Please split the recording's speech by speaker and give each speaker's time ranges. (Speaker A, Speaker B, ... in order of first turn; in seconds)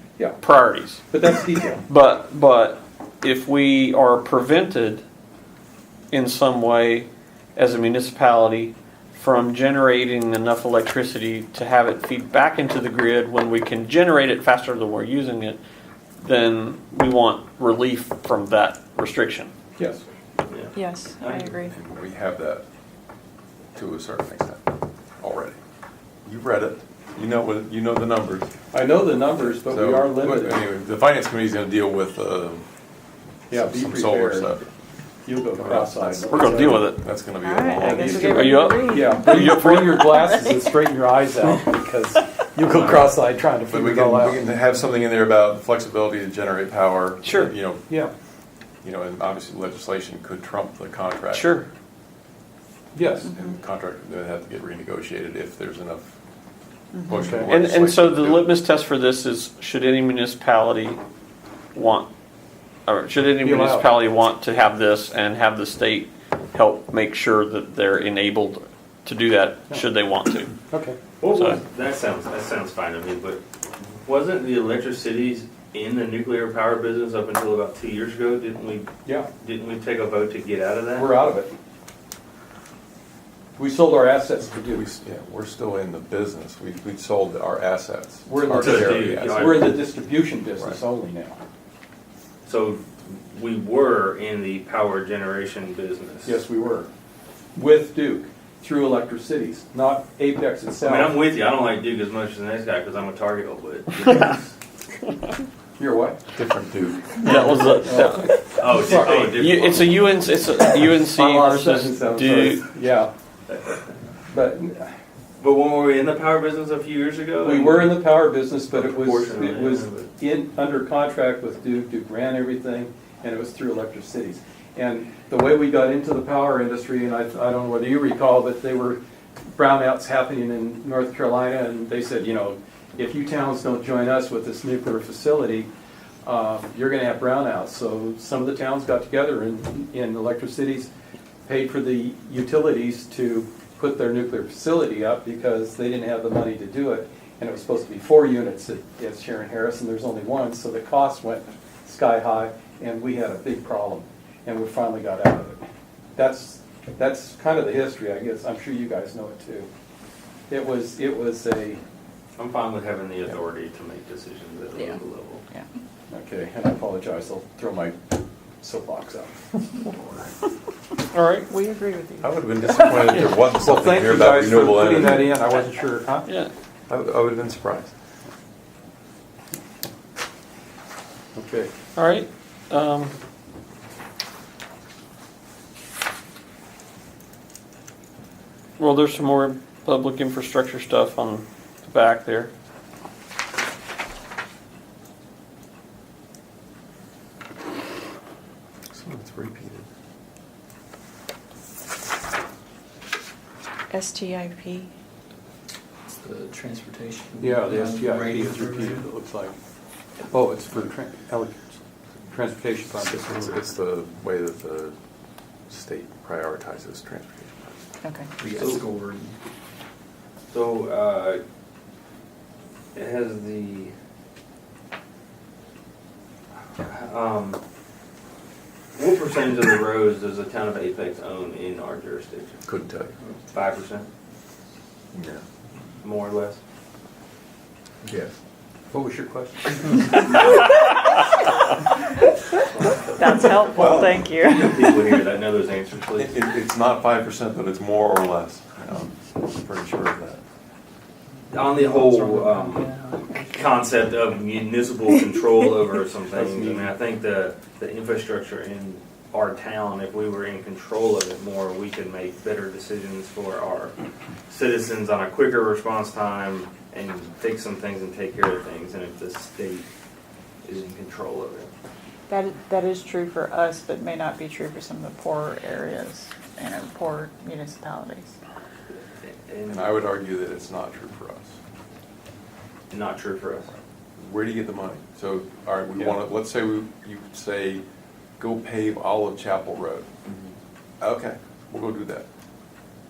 Speaker A: 0.4-1.0, 1.9-5.0, 6.1-15.6, 16.2-19.5, 35.6-37.0, 37.9-40.2, 47.2-47.5, 51.3-51.7, 57.5-61.0, 61.7-62.1, 62.9-70.6, 71.3-71.6, 107.2-112.7, 171.1-171.5, 176.2-176.5, 181.9-183.1, 188.8-192.5
Speaker B: 1.1-1.8, 19.8-20.0, 28.7-30.6, 33.5-34.5, 35.2-36.9, 38.9-44.4, 52.9-53.3, 57.2-57.5, 63.4-63.9, 70.7-71.0, 81.0-81.5, 83.6-84.9, 88.2-91.4, 96.2-96.9, 97.5-101.2, 105.8-106.2, 107.8-109.4, 111.0-113.1, 114.3-114.9, 117.4-129.0, 129.5-135.7, 136.2-140.9, 141.4-155.6, 156.2-159.7, 160.5-161.8, 166.1-168.0, 168.6-169.9, 173.6-176.3, 181.3-181.7, 207.4-209.5, 210.2-211.8, 212.3-213.6, 238.9-239.8
Speaker C: 20.5-21.6, 71.2-73.4, 73.9-81.1, 88.4-89.8, 92.4-96.4, 100.8-104.5, 108.5-110.1, 113.5-114.0, 115.4-118.1, 118.7-120.1, 162.4-165.4, 218.5-218.8, 220.5-221.4, 222.9-223.9, 226.8-227.6, 228.9-232.6, 233.5-234.1, 236.0-236.6, 244.4-246.4, 251.5-252.9, 253.5-263.9, 264.5-269.9, 270.6-271.7, 279.2-280.0, 282.9-283.7
Speaker D: 20.7-21.7, 37.4-40.7, 171.5-172.8, 203.9-204.9, 218.0-218.3, 243.2-244.8, 272.3-278.4
Speaker E: 21.6-22.6, 23.7-25.6, 26.2-28.5, 29.5-32.6, 33.5-34.7, 36.9-38.7, 42.8-43.1, 43.7-47.9, 48.8-51.6, 53.2-56.1, 57.0-58.5, 84.7-89.7, 106.3-107.3, 172.2-175.4, 176.9-177.9, 198.9-199.8, 213.1-214.9, 215.7-217.7, 232.6-233.1, 235.1-235.4, 243.5-244.7, 246.2-250.4, 279.7-281.6, 283.7-287.8, 288.4-290.1, 291.0-292.3
Speaker F: 206.1-209.1, 218.4-219.3, 251.5-253.8